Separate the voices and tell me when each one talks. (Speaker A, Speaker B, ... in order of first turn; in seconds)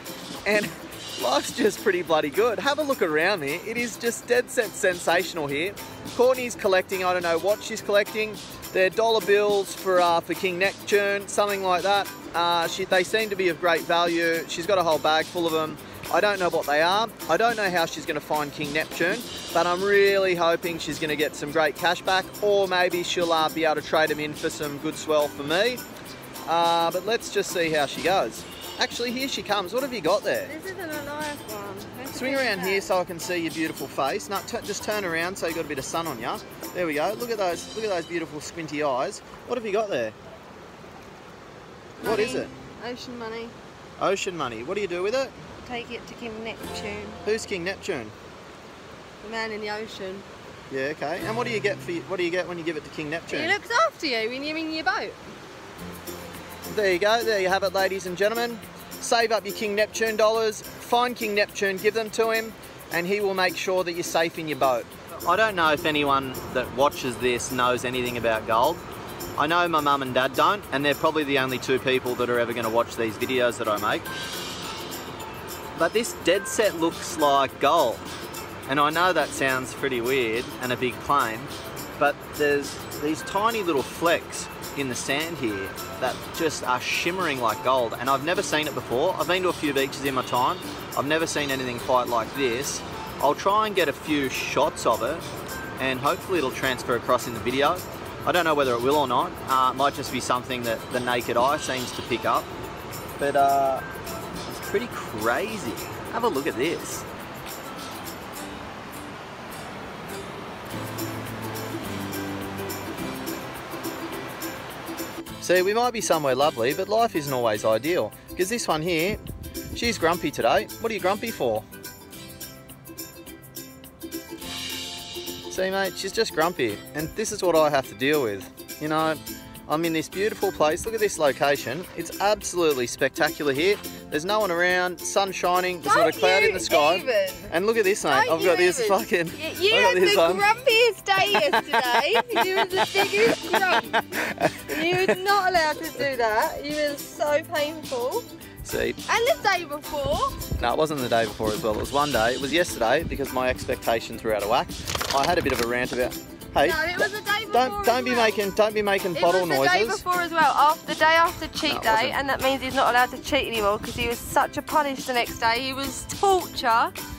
Speaker A: 0.5-25.8, 26.5-30.5, 32.1-40.2, 42.0-42.5, 44.0-45.4, 47.2-48.1, 50.7-53.6, 56.7-68.8, 69.4-74.1, 75.8-78.1, 78.7-95.3, 95.8-102.5, 103.2-103.8, 104.5-107.1, 115.4-119.2, 119.7-121.7, 125.5-140.5, 141.3-145.1, 148.6-149.0, 150.6-156.8, 157.5-160.0, 161.7-162.2
Speaker B: 30.4-32.9, 42.0-43.5, 45.6-47.2, 49.2-50.3, 53.3-55.2, 135.8-137.5, 138.1-148.3, 149.1-150.4, 156.6-158.4, 159.2-166.9